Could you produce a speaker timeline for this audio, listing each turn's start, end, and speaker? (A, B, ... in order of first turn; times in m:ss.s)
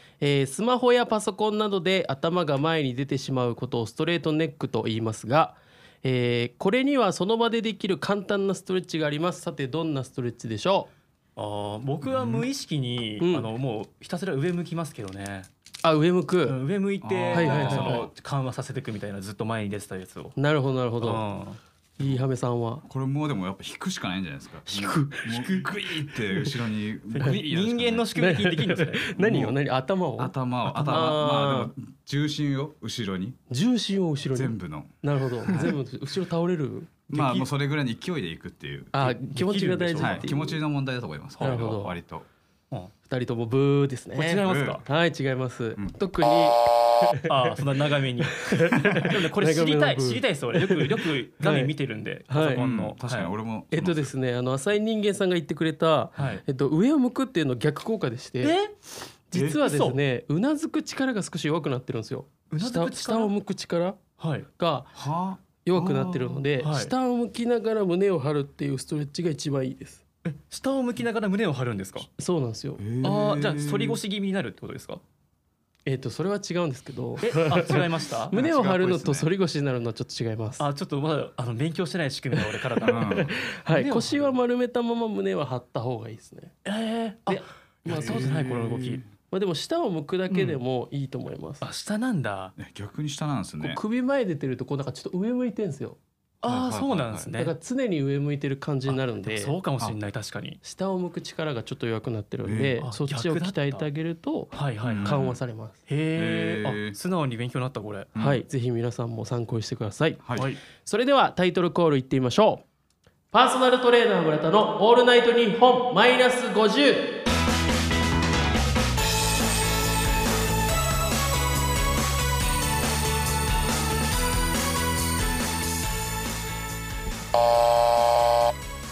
0:00.2-0:10.9 A
0:11.4-0:15.5 B
0:12.0-0:12.4 C
0:13.2-0:13.5 A
0:15.8-0:16.6 A
0:16.4-0:20.3 B
0:17.0-0:18.1 C
0:17.3-0:18.1 A
0:20.4-0:21.2 A
0:21.0-0:21.6 B
0:22.0-0:22.8 A
0:22.8-0:28.1 C
0:24.6-0:25.5 A
0:27.1-0:29.1 B
0:28.1-0:31.7 A
0:29.1-0:29.6 C
0:30.2-0:33.4 C
0:33.5-0:36.9 A
0:34.3-0:35.8 C
0:37.1-0:38.9 C
0:37.1-0:37.5 B
0:38.9-0:40.6 A
0:39.0-0:40.3 B
0:40.0-0:42.3 C
0:41.4-0:41.9 A
0:43.1-0:47.6 A
0:44.2-0:44.8 B
0:44.4-0:44.8 C
0:47.3-0:53.3 B
0:48.3-0:51.7 A
0:52.3-0:52.6 A
0:52.6-0:54.1 C
0:53.7-0:58.5 A
0:56.2-0:56.4 B
0:58.4-0:58.7 B
0:59.3-1:04.0 A
0:59.3-1:00.0 B
1:02.5-1:03.3 B
1:04.2-1:04.5 B
1:04.6-1:04.9 A
1:05.0-1:06.5 C
1:05.6-1:10.0 A
1:06.6-1:06.9 B
1:10.2-1:12.1 B
1:12.2-1:13.1 A
1:12.8-1:14.0 C
1:13.0-1:15.0 B
1:15.8-1:20.6 A
1:17.2-1:18.3 B
1:18.3-1:19.3 C
1:20.6-1:24.3 B
1:22.4-1:26.5 A
1:22.8-1:23.4 C
1:26.6-1:29.0 B
1:27.2-1:28.5 A
1:27.9-1:29.0 C
1:29.3-1:31.6 A
1:30.3-1:30.6 B
1:31.6-1:32.5 B
1:32.6-1:33.8 C
1:33.6-1:36.0 A
1:36.4-1:37.6 B
1:36.4-1:37.3 C
1:37.4-1:39.5 A
1:38.9-1:40.6 B
1:40.6-1:45.8 A
1:42.4-1:42.8 C
1:42.8-1:43.8 B
1:44.5-1:45.3 B
1:44.8-1:45.4 C
1:45.9-1:48.1 B
1:46.1-1:47.0 C
1:48.1-1:48.4 C
1:48.2-1:52.6 A
1:50.2-1:50.5 C
1:53.3-1:57.1 A